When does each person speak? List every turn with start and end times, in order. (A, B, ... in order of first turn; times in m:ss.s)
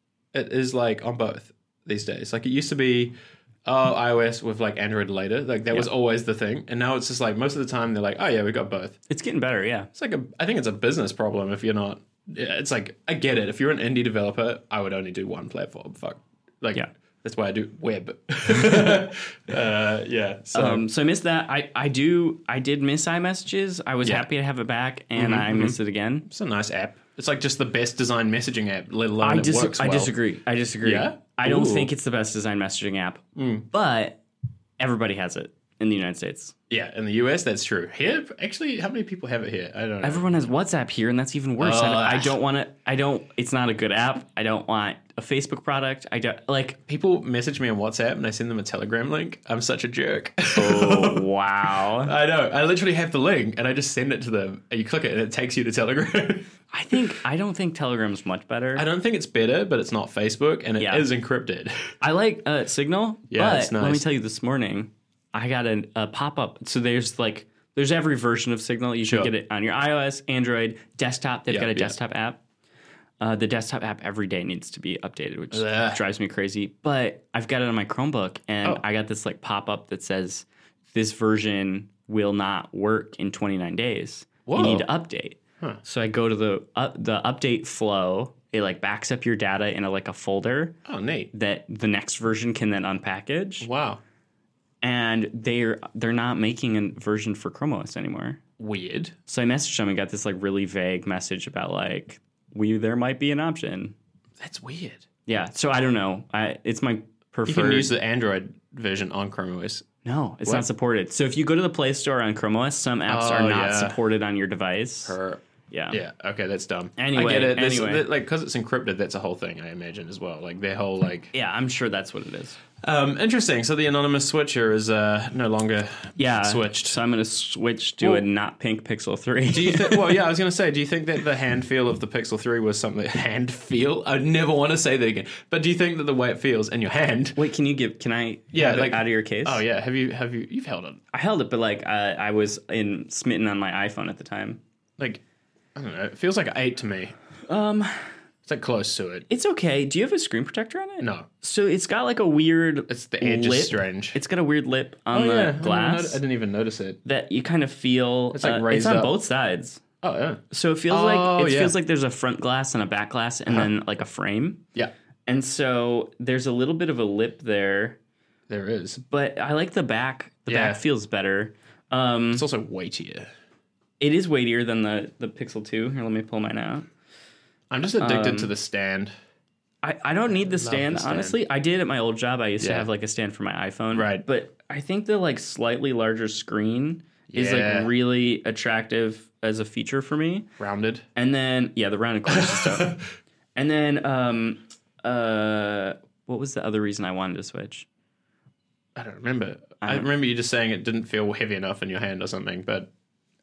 0:00.3-0:03.1 A
0:03.6-0:09.0 A
0:09.1-0:09.9 B
0:09.9-0:20.8 A
0:20.5-0:26.3 B
0:25.2-0:30.1 A
0:29.2-0:34.2 B
0:30.8-0:31.9 A
0:33.4-0:33.7 A
0:34.8-0:36.5 B
0:36.7-0:40.5 A
0:40.0-0:46.8 B
0:41.6-0:42.4 A
0:46.9-0:57.2 A
0:50.6-0:52.1 B
0:56.7-0:58.8 B
0:58.7-1:01.7 A
1:00.8-1:01.0 B
1:02.0-1:12.4 B
1:03.3-1:04.0 A
1:09.0-1:09.3 A
1:11.5-1:12.0 A
1:13.2-1:30.7 B
1:15.5-1:16.0 A
1:24.4-1:24.8 A
1:30.8-1:31.3 A
1:31.3-1:33.7 B
1:33.6-1:34.0 A
1:34.8-1:38.4 B
1:38.6-1:39.1 A
1:39.3-1:43.9 B
1:44.4-1:45.0 A
1:45.2-1:47.9 B
1:47.4-1:49.8 A
1:50.0-1:55.2 B
1:53.1-1:54.0 A
1:55.1-2:01.3 A
1:55.7-1:56.0 B
1:57.0-1:58.0 B
2:01.3-2:02.6 B
2:02.8-2:07.0 A
2:06.2-2:10.2 B
2:08.0-2:08.2 A
2:09.5-2:17.4 A
2:17.4-2:19.6 B
2:18.5-2:21.0 A
2:21.1-2:24.6 B
2:25.7-2:27.1 A
2:27.5-2:28.1 B
2:28.4-2:29.2 A
2:29.3-2:36.2 B
2:31.0-2:31.3 A
2:32.9-2:34.2 A
2:35.1-2:37.0 A
2:37.0-2:39.8 B
2:38.3-2:39.1 A
2:40.0-2:41.7 A
2:40.5-2:44.6 B
2:45.3-2:48.0 B
2:48.5-2:49.0 A
2:49.0-2:52.4 B
2:50.5-2:50.8 A
2:52.3-2:53.3 A
2:54.0-2:56.8 B
2:57.7-2:59.1 A
2:58.0-2:58.5 B
2:59.8-3:10.5 B
3:00.3-3:01.4 A
3:02.6-3:02.9 A
3:03.9-3:04.2 A
3:07.3-3:07.9 A
3:10.6-3:11.0 A
3:11.2-3:13.0 B
3:12.3-3:13.0 A
3:13.6-3:17.9 B
3:19.0-3:22.9 A
3:19.8-3:20.1 B